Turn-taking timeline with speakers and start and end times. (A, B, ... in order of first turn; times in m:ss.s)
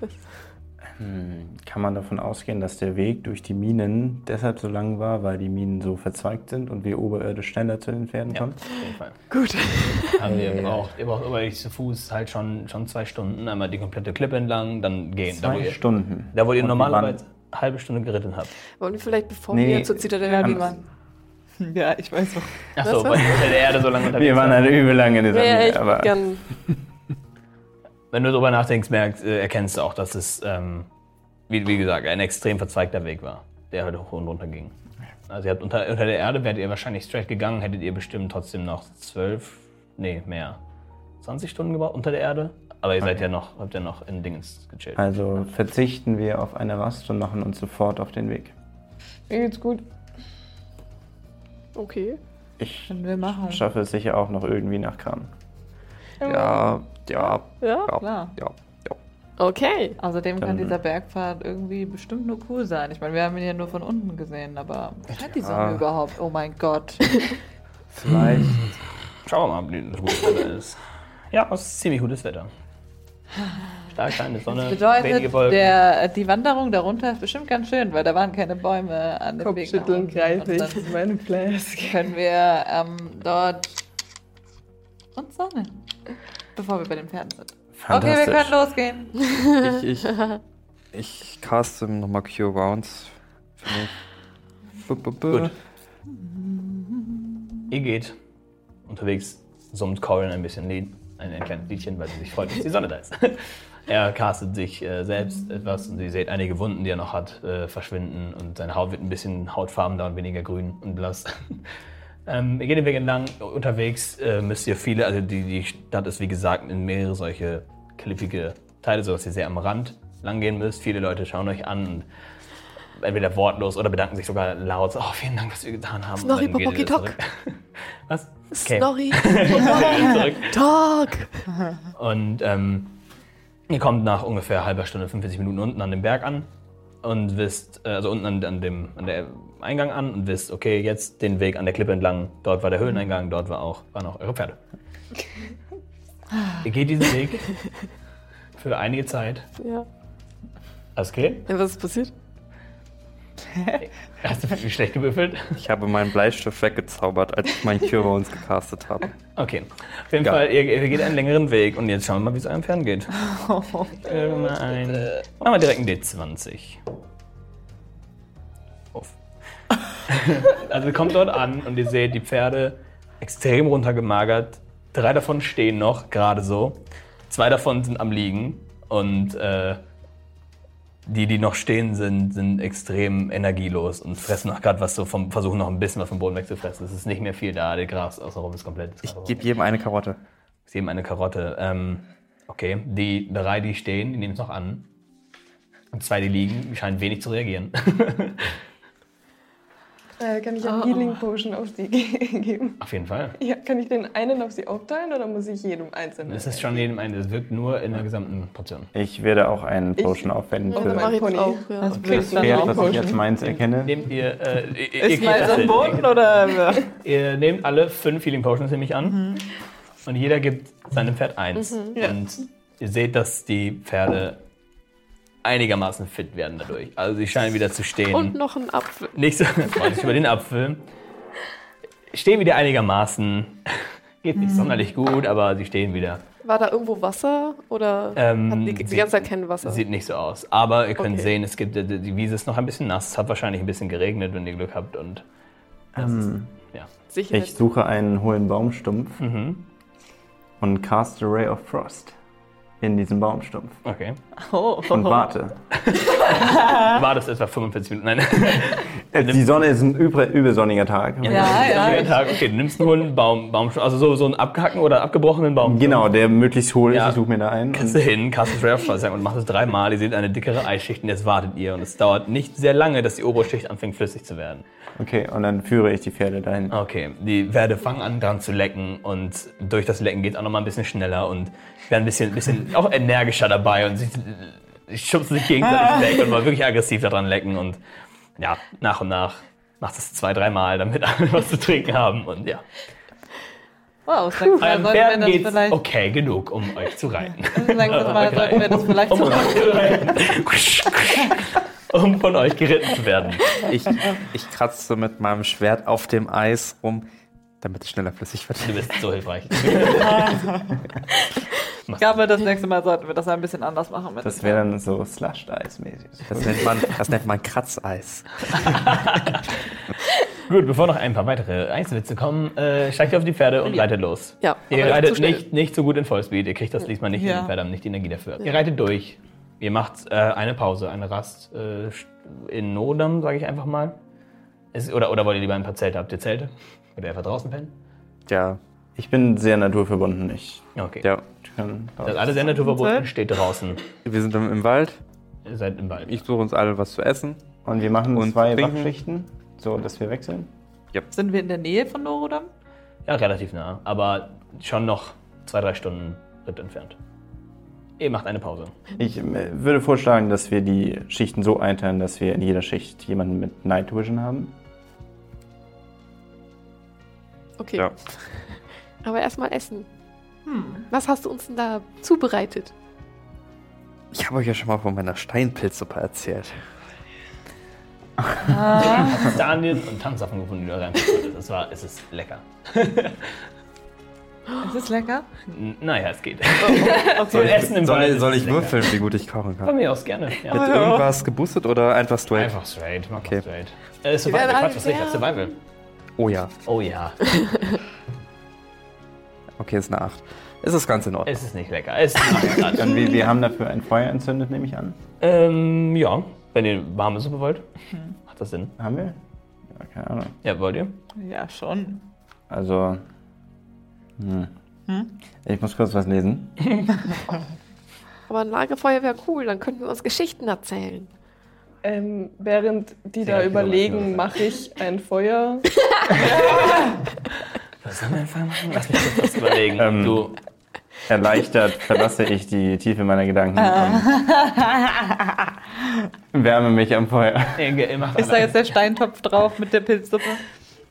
0:01.0-0:08.6 A
0:08.3-0:09.2 B
0:09.3-0:10.2 C
0:10.1-0:18.5 B
0:10.2-0:10.9 A
0:15.3-0:17.2 A
0:18.7-0:20.8 C
0:19.5-0:20.7 A
0:20.2-0:20.8 D
0:21.6-0:22.7 D
0:22.8-0:24.7 B
0:22.8-0:23.6 C
0:24.0-0:26.8 A
0:25.3-0:26.4 C
0:28.1-0:30.9 B
0:31.5-0:34.8 B
0:35.3-0:40.6 B
0:41.2-0:45.0 B
0:45.0-0:48.6 A
0:49.3-0:49.8 E
0:51.7-0:52.2 C
0:52.6-0:55.3 A
0:52.9-0:53.7 D
0:56.2-0:56.6 E
0:56.2-0:59.0 F
0:57.6-0:57.9 C
0:58.0-0:58.4 D
0:59.4-1:00.0 C
1:00.0-1:07.1 D
1:00.4-1:00.8 A
1:05.4-1:05.8 F
1:07.9-1:08.8 F
1:08.1-1:12.5 B
1:13.9-1:15.7 B
1:14.6-1:21.0 D
1:19.4-1:22.1 E
1:21.8-1:23.7 D
1:25.2-1:25.8 D
1:26.6-1:29.3 D
1:27.8-1:28.6 A
1:29.6-1:30.2 F
1:30.1-1:30.4 C
1:30.9-1:34.0 F
1:34.8-1:35.5 F
1:36.2-1:37.0 D
1:37.7-1:38.2 B
1:38.9-2:02.1 B
2:02.9-2:10.6 B
2:06.2-2:07.2 C
2:08.5-2:11.5 C
2:12.0-2:13.0 B
2:13.7-2:16.5 B
2:17.0-2:24.6 B
2:26.6-2:27.6 B
2:28.6-2:29.5 B
2:29.6-2:29.9 C
2:31.0-2:31.5 B
2:31.5-2:32.1 C
2:33.5-2:33.8 D
2:33.8-2:35.6 B
2:35.6-2:39.1 F
2:39.4-2:43.2 B
2:43.3-2:44.6 D
2:44.0-2:46.8 B
2:48.9-2:49.2 B
2:50.1-2:59.8 B
3:01.1-3:09.4 B
3:09.0-3:10.2 F
3:10.7-3:14.9 B
3:15.9-3:18.6 B
3:20.2-3:22.8 E
3:20.6-3:21.1 C
3:22.8-3:23.4 B
3:23.4-3:26.8 E
3:26.3-3:28.9 B
3:28.9-3:31.2 A
3:30.0-3:33.2 E
3:30.7-3:32.6 C
3:31.8-3:33.2 D
3:31.9-3:32.4 B
3:32.4-3:34.1 A
3:33.4-3:36.3 B
3:35.0-3:37.0 D
3:36.9-3:39.2 B
3:39.1-3:39.5 D
3:40.0-3:44.4 B
3:41.6-3:42.0 C
3:45.4-3:48.4 B
3:48.1-3:49.2 C
3:49.1-3:50.9 B
3:52.1-3:56.2 B
3:54.4-3:54.8 D
3:56.4-3:59.8 C
3:58.2-4:05.2 B
4:01.0-4:01.3 C
4:06.0-4:06.6 A
4:06.0-4:06.9 B
4:07.1-4:07.6 C
4:07.3-4:09.2 A
4:09.2-4:09.6 B
4:10.6-4:12.2 A
4:12.8-4:13.8 A
4:13.8-4:14.2 B
4:14.4-4:15.3 D
4:14.9-4:15.6 A
4:15.8-4:19.5 B
4:16.6-4:16.9 D
4:19.1-4:22.1 A
4:21.2-4:26.1 B
4:21.3-4:22.3 D
4:25.6-4:28.1 A
4:26.9-4:27.2 B
4:27.7-4:34.6 B
4:35.0-4:36.8 A
4:36.7-4:47.8 B
4:48.4-4:52.7 B
4:54.1-4:55.8 D
4:54.6-5:03.5 B
4:57.5-5:00.1 D
5:03.7-5:07.0 F
5:07.6-5:08.9 F
5:08.6-5:10.4 B
5:10.0-5:10.7 D
5:11.9-5:12.2 B
5:12.0-5:14.6 D
5:14.2-5:16.9 A
5:16.3-5:18.8 F
5:18.5-5:19.8 B
5:20.3-5:34.0 B
5:23.6-5:23.9 D
5:24.3-5:25.5 C
5:27.1-5:27.6 D
5:34.7-5:37.7 B
5:38.3-5:38.6 F
5:39.0-5:40.7 A
5:40.8-5:41.1 B
5:41.2-5:42.6 A
5:42.0-5:43.9 B
5:42.6-5:43.1 D
5:44.0-5:45.0 F
5:45.4-5:46.2 B
5:46.0-5:47.4 F
5:47.6-5:50.5 A
5:48.2-5:48.9 F
5:51.1-5:52.5 D
5:53.1-5:57.0 B
5:58.0-5:58.8 B
5:59.0-6:04.6 A
6:07.6-6:09.9 C
6:07.8-6:08.3 F
6:10.5-6:10.8 D
6:10.9-6:12.7 C
6:14.1-6:16.6 F
6:18.4-6:19.4 D
6:19.0-6:23.4 B
6:24.6-6:25.3 D
6:25.5-6:28.8 B
6:26.6-6:27.6 D
6:26.8-6:27.1 E
6:27.2-6:29.8 F
6:29.6-6:30.9 B
6:30.5-6:32.6 F
6:30.6-6:31.1 D
6:32.3-6:35.6 B
6:33.1-6:33.4 F
6:34.2-6:35.4 C
6:36.2-6:36.5 F
6:36.6-6:37.5 B
6:37.4-6:37.8 C
6:39.6-6:41.3 F
6:41.2-6:43.0 B
6:42.5-6:45.0 A
6:45.2-6:47.7 B
6:48.2-6:48.8 B
6:48.8-6:50.4 A
6:50.4-6:51.0 B
6:51.2-6:52.1 D
6:52.5-6:53.0 A
6:54.2-6:54.5 A
6:55.2-6:56.8 A
6:58.3-7:01.1 C
7:01.8-7:05.7 E
7:03.2-7:04.4 B
7:06.2-7:06.9 D
7:07.8-7:10.4 B
7:09.8-7:10.3 A
7:11.1-7:14.3 A
7:13.6-7:15.5 D
7:16.3-7:17.9 A
7:17.6-7:18.8 B
7:18.2-7:20.4 D